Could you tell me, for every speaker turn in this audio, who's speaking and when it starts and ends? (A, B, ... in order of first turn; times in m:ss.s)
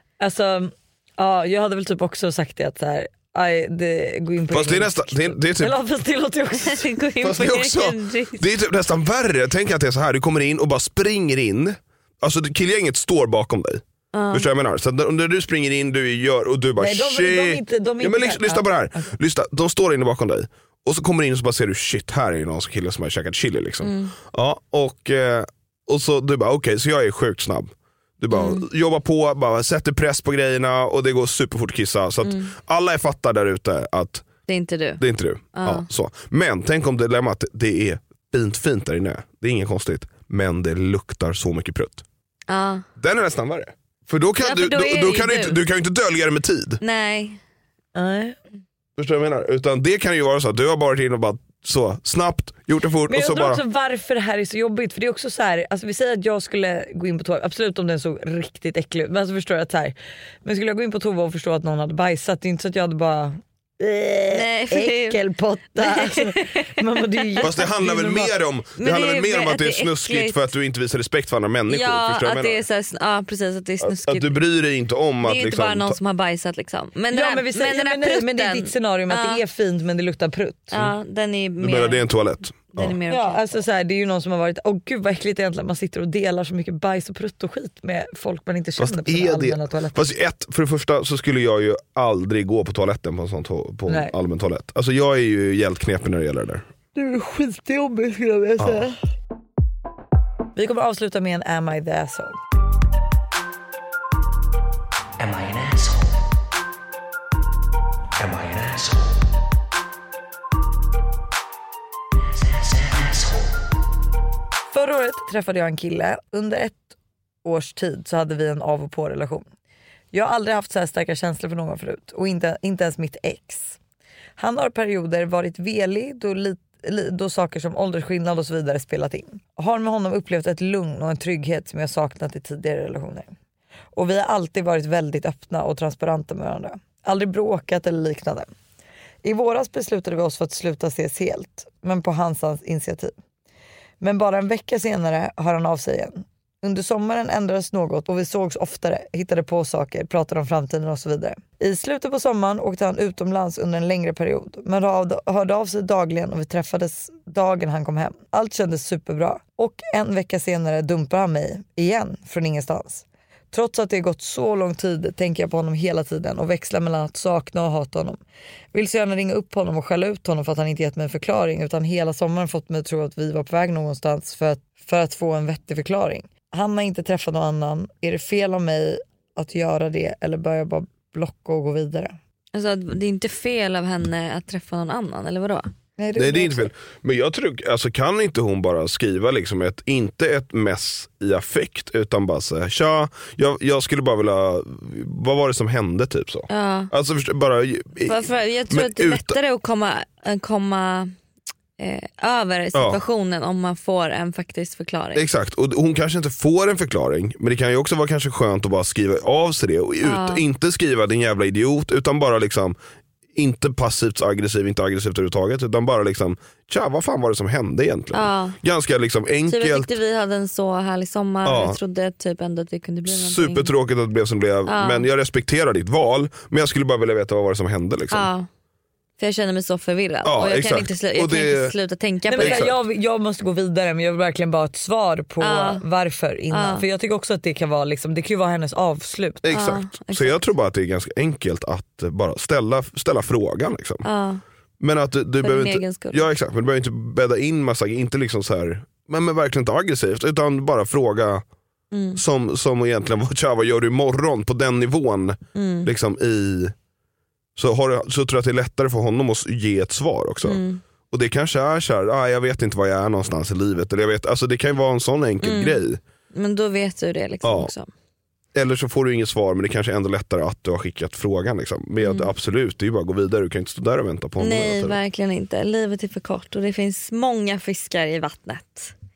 0:00.2-0:06.9 A
0:04.5-0:05.8 B
0:06.5-0:08.4 C
0:07.2-0:34.2 B
0:14.1-0:14.5 C
0:16.8-0:19.1 A
0:23.8-0:24.1 C
0:28.3-0:28.6 C
0:32.2-0:32.5 C
0:34.5-0:35.0 C
0:35.0-0:42.0 B
0:35.5-0:35.9 C
0:42.5-0:42.9 C
0:43.0-0:46.8 B
0:44.4-0:45.6 C
0:46.8-0:47.4 C
0:48.0-0:48.4 A
0:49.0-0:53.6 B
0:53.1-1:08.3 A
1:04.3-1:05.2 C
1:05.8-1:07.5 C
1:07.4-1:12.6 B
1:08.8-1:10.5 C
1:11.7-1:14.4 C
1:13.8-1:16.0 B
1:15.2-1:19.4 C
1:17.1-1:20.7 A
1:20.7-1:22.0 C
1:21.6-1:23.0 B
1:22.7-1:23.6 C
1:23.1-1:30.0 A
1:28.8-1:36.6 B
1:33.9-1:34.1 A
1:37.0-1:39.0 A
1:38.6-1:38.9 B
1:40.6-1:42.4 A
1:45.2-1:46.2 D
1:48.2-1:49.1 D
1:52.5-1:53.5 D
1:54.7-1:59.5 A
2:00.1-2:03.8 A
2:04.4-2:13.3 A
2:14.0-2:18.5 A
2:19.2-2:23.1 A
2:24.0-2:48.2 A
2:48.7-3:02.2 A
3:02.5-3:05.7 C
3:06.0-3:06.7 A
3:06.2-3:19.4 B
3:16.5-3:16.9 C
3:18.1-3:21.1 C
3:21.8-3:25.2 C
3:22.8-3:23.0 B
3:25.2-3:32.8 B
3:30.0-3:30.4 C
3:33.4-3:39.9 B
3:38.1-3:38.6 C
3:39.5-3:43.7 C
3:41.4-3:41.8 B
3:43.1-3:48.3 B
3:44.7-3:45.1 C
3:48.1-3:48.5 C
3:49.2-3:52.7 C
3:50.2-3:51.8 B
3:52.3-3:59.4 A
3:52.4-3:52.7 B
3:55.4-3:55.8 C
3:56.5-3:56.8 C
3:59.4-4:04.0 B
3:59.5-4:00.4 C
4:04.0-4:04.4 C
4:04.8-4:11.4 B
4:05.4-4:06.3 C
4:11.9-4:12.2 C
4:12.2-4:16.7 B
4:15.6-4:15.9 C
4:17.6-4:26.0 B
4:20.4-4:20.8 C
4:25.4-4:25.8 C
4:26.3-4:27.9 C
4:27.4-4:27.7 B
4:28.6-4:35.0 B
4:32.0-4:32.3 C
4:34.4-4:38.9 C